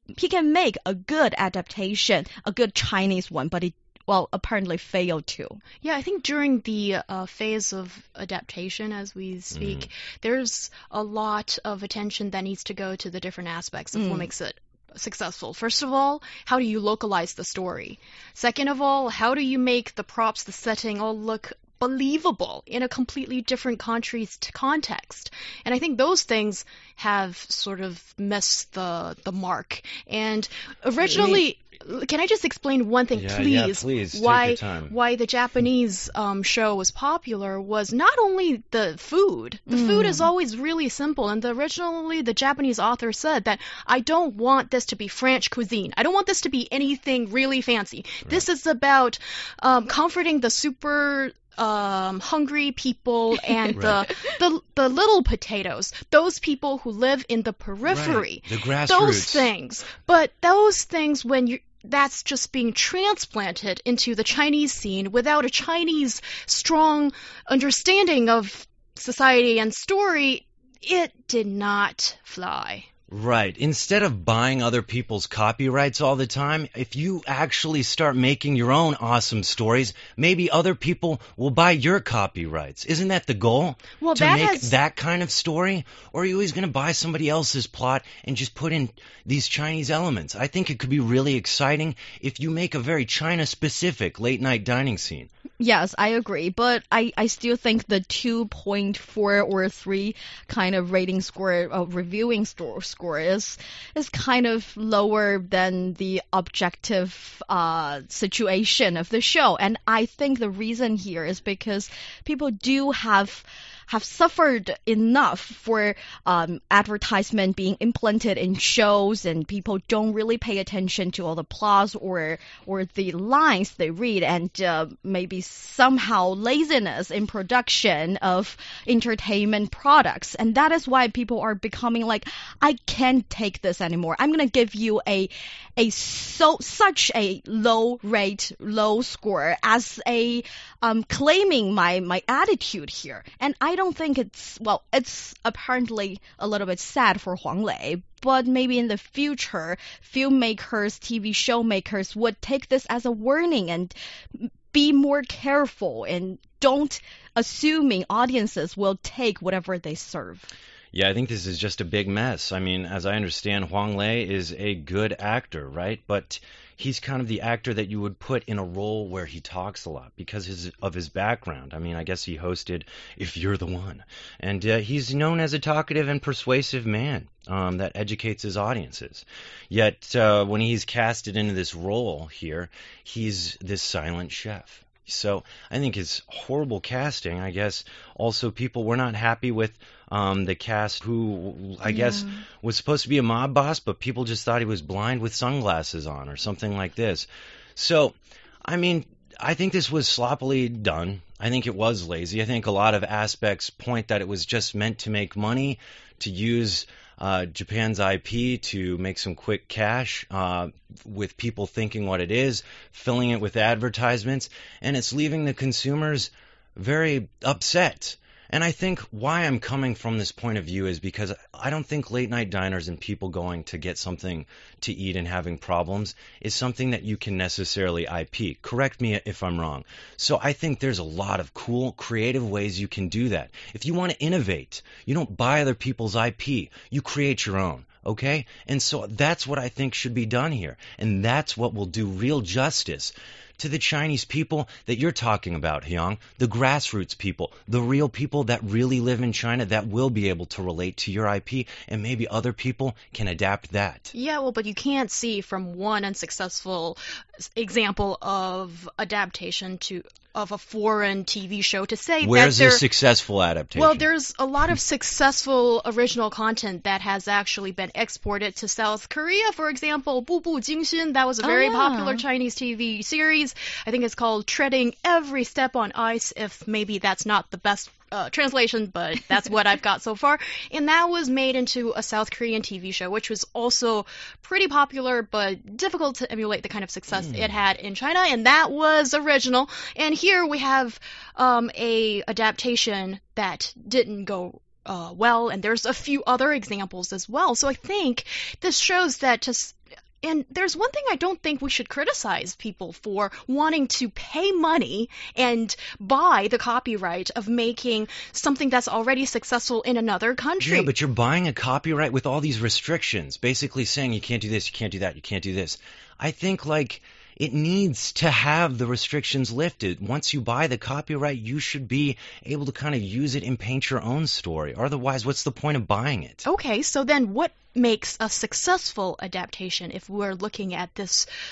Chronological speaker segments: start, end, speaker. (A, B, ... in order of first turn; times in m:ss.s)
0:00.2-0:05.6 A
0:05.8-1:12.9 B
0:09.5-0:09.9 C
0:13.9-0:14.3 A
0:31.0-0:31.4 C
0:33.1-0:34.9 C
0:39.7-0:40.3 A
0:53.7-0:54.1 C
0:57.9-0:59.5 C
1:13.1-1:35.3 C
1:24.0-1:24.7 B
1:35.6-2:40.5 A
2:40.9-4:14.1 C
3:12.0-3:12.4 A
4:14.1-4:22.8 B
4:22.2-4:24.1 C
4:23.7-5:10.9 B
4:31.4-4:32.2 A
4:47.1-4:47.6 C
5:10.6-5:26.4 C
5:26.4-5:31.3 B